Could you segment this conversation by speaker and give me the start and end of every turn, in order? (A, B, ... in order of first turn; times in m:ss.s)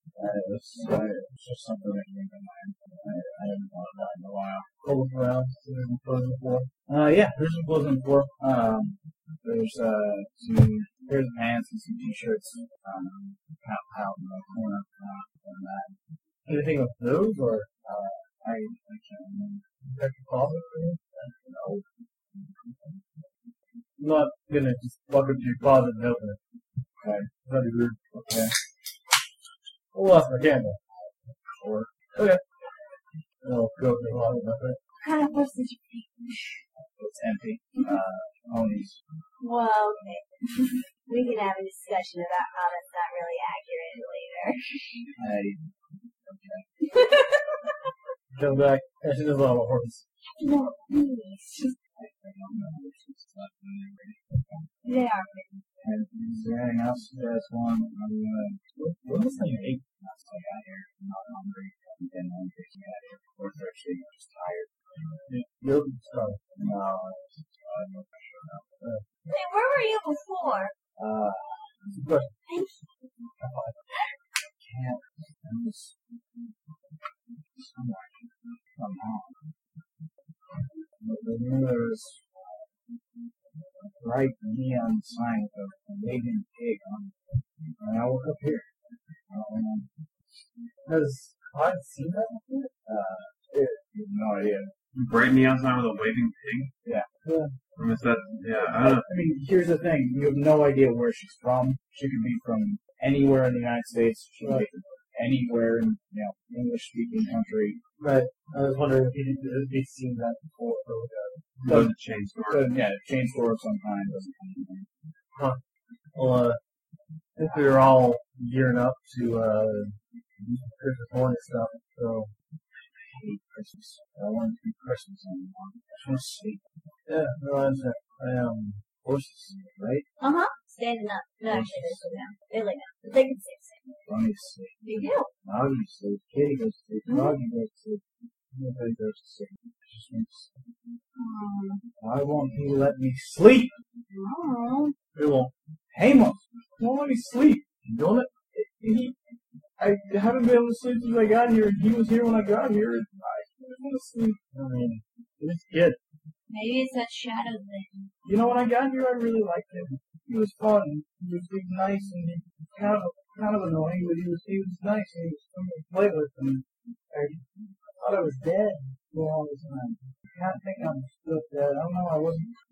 0:00.2-0:04.7 A
0:04.8-0:06.7 B
0:06.9-0:16.0 A
0:16.5-0:17.7 B
0:17.8-0:19.6 A
0:20.0-0:21.0 B
0:21.2-0:21.8 A
0:22.4-0:23.0 A
0:24.0-0:26.4 B
0:27.0-0:27.3 A
0:27.5-0:28.0 B
0:28.1-0:28.5 A
0:29.9-0:30.8 B
0:31.0-0:31.9 A
0:32.1-0:32.4 B
0:33.4-0:34.8 B
0:35.0-0:36.6 C
0:37.0-0:38.9 A
0:39.4-0:45.0 C
0:45.2-0:45.6 A
0:46.2-0:46.7 A
0:46.8-0:47.9 C
0:48.4-0:50.0 B
0:50.2-0:51.8 C
0:51.9-0:54.7 A
0:54.8-0:55.6 C
0:55.8-1:05.3 A
0:58.8-0:59.8 B
1:05.3-1:06.4 B
1:06.6-1:08.8 A
1:09.3-1:10.8 C
1:11.0-1:11.7 A
1:11.9-1:12.3 B
1:12.5-1:12.9 C
1:13.4-1:13.7 B
1:13.9-1:14.2 C
1:14.6-1:15.9 A
1:17.6-1:19.2 A
1:21.0-1:22.7 A
1:24.0-1:27.1 A
1:27.8-1:28.7 A
1:29.3-1:29.9 A
1:30.9-1:32.7 B
1:32.8-1:34.7 A
1:34.9-1:36.7 D
1:37.2-1:37.5 B
1:37.8-1:39.0 D
1:38.8-1:47.8 A
1:44.4-1:44.7 B
1:48.0-1:51.6 B
1:51.6-1:52.6 D
1:52.5-1:54.9 A
1:55.3-1:55.6 B
1:56.1-1:56.6 B
1:57.4-2:02.3 B
2:03.1-2:06.6 A
2:07.1-2:08.8 B
2:09.0-2:10.0 A
2:10.2-2:13.7 C
2:11.5-2:12.3 A
2:14.1-2:18.0 A
2:14.8-2:15.3 C
2:17.1-2:17.4 C
2:18.6-2:20.5 A
2:21.2-2:21.8 C
2:22.0-2:23.7 A
2:24.1-2:24.9 C
2:25.2-2:25.5 B
2:25.9-2:27.8 A
2:27.9-2:28.3 B
2:28.4-2:29.2 A
2:29.8-2:34.4 A
2:34.5-2:36.0 B
2:36.5-2:38.1 C
2:38.2-2:52.6 A